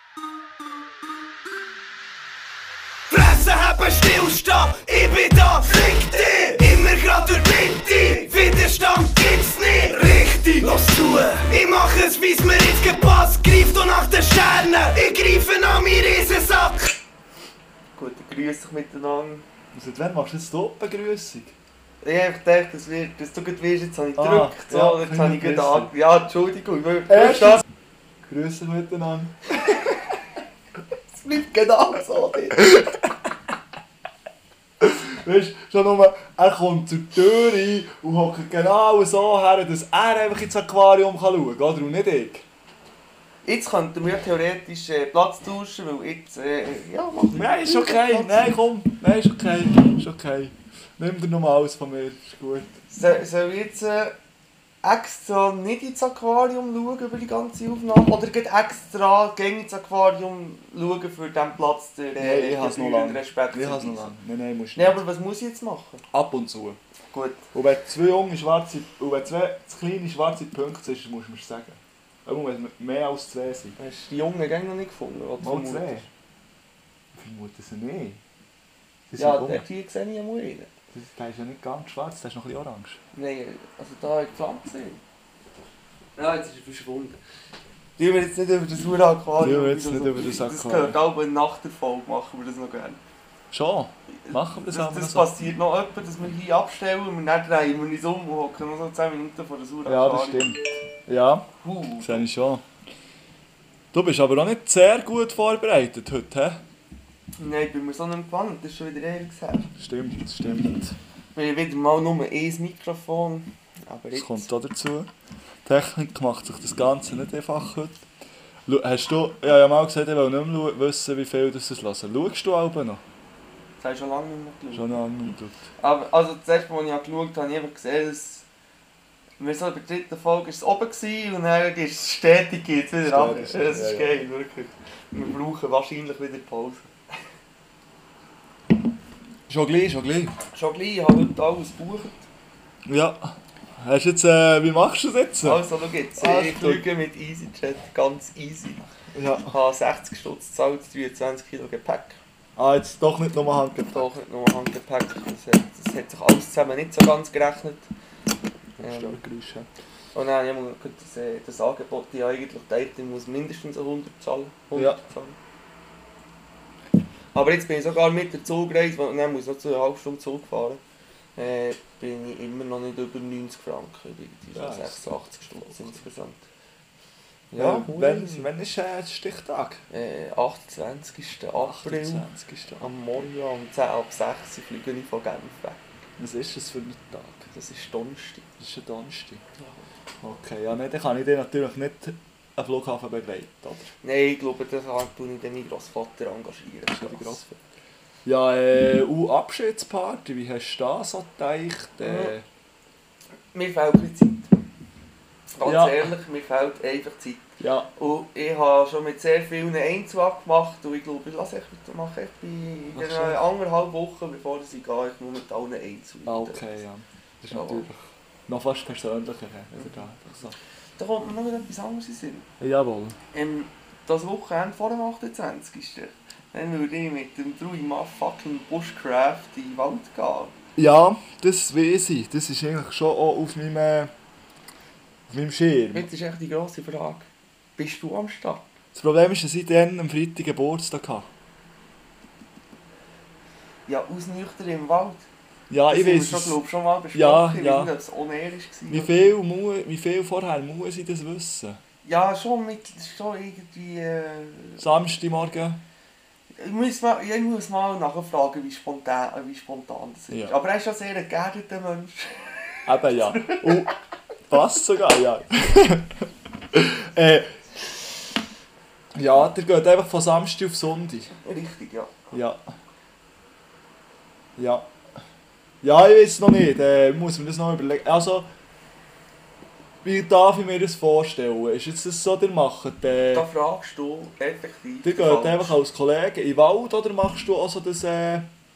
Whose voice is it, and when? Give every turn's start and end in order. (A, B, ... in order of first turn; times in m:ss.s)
0:03.1-0:16.9 A
0:18.0-0:19.4 B
0:19.7-0:21.6 C
0:22.0-0:27.6 B
0:24.2-0:25.9 C
0:27.1-0:27.6 C
0:28.3-0:29.4 C
0:31.2-0:32.7 B
0:32.6-0:33.1 C
0:34.8-0:42.4 C
0:43.4-0:48.5 B
0:47.3-0:52.7 C
0:52.9-0:54.2 B
0:54.8-1:04.1 B
1:02.2-1:05.0 C
1:04.8-1:06.0 B
1:06.1-1:06.8 C
1:07.1-1:07.4 B
1:07.5-1:13.8 C
1:13.8-1:16.0 B
1:15.4-1:16.1 C
1:17.2-1:18.2 C
1:19.1-1:19.6 C
1:19.2-1:20.7 B
1:20.9-1:23.0 C
1:23.1-1:25.0 B
1:26.2-1:27.2 B
1:28.0-1:33.0 B
1:29.4-1:31.0 C
1:33.5-1:35.3 C
1:34.2-1:40.6 B
1:39.8-1:41.5 C
1:41.6-1:42.3 B
1:42.0-1:42.6 C
1:43.9-1:46.6 C
1:47.4-1:49.7 B
1:49.8-1:51.0 C
1:51.3-1:54.5 B
1:54.1-1:55.1 C
1:55.6-1:58.0 C
1:58.6-2:03.0 C
2:03.8-2:05.0 B
2:04.7-2:05.6 C
2:05.8-2:08.4 B
2:09.4-2:16.9 B
2:13.0-2:14.2 C
2:19.5-2:20.4 C
2:20.5-2:22.2 B
2:22.9-2:25.6 C
2:25.4-2:28.8 B
2:26.2-2:26.9 C
2:29.1-2:29.6 C
2:29.5-2:32.2 B
2:32.6-2:34.1 C
2:33.9-2:37.9 B
2:38.8-2:39.7 C
2:38.8-2:39.2 B
2:40.1-2:45.4 B
2:44.8-2:45.0 C
2:47.3-2:50.8 B
2:51.4-2:56.4 B
2:54.6-2:56.0 C
2:57.5-2:58.5 B
2:57.6-2:59.8 C
2:59.9-3:02.2 B
3:01.6-3:02.9 C
3:02.8-3:05.9 B
3:06.2-3:07.5 C
3:07.5-3:08.5 B
3:08.6-3:09.4 C
3:10.2-3:13.9 C
3:14.0-3:17.6 B
3:16.9-3:17.4 C
3:18.2-3:22.4 C
3:22.0-3:22.3 B
3:23.5-3:24.6 B
3:25.5-3:36.7 B
3:25.6-3:26.1 C
3:27.6-3:27.9 C
3:32.9-3:33.4 C
3:36.2-3:40.6 C
3:37.5-3:37.9 B
3:39.8-3:40.0 B
3:41.0-3:42.5 B
3:42.6-3:43.2 C
3:43.3-3:50.6 B
3:50.8-3:54.1 C
3:55.3-3:56.1 C
3:55.9-3:58.6 B
3:58.9-4:01.3 C
4:03.9-4:05.2 B
4:05.7-4:06.6 C
4:05.9-4:09.3 B
4:07.1-4:07.9 C
4:08.9-4:11.8 C
4:12.0-4:15.0 B
4:14.8-4:15.8 C
4:16.6-4:23.9 B
4:22.9-4:23.9 C
4:24.5-4:27.6 C
4:29.2-4:31.3 C
4:31.4-4:32.2 B
4:32.3-4:32.6 C
4:34.6-4:34.9 C
4:35.8-4:38.5 C
4:40.0-4:43.5 C
4:43.3-4:45.8 B
4:45.0-4:48.5 C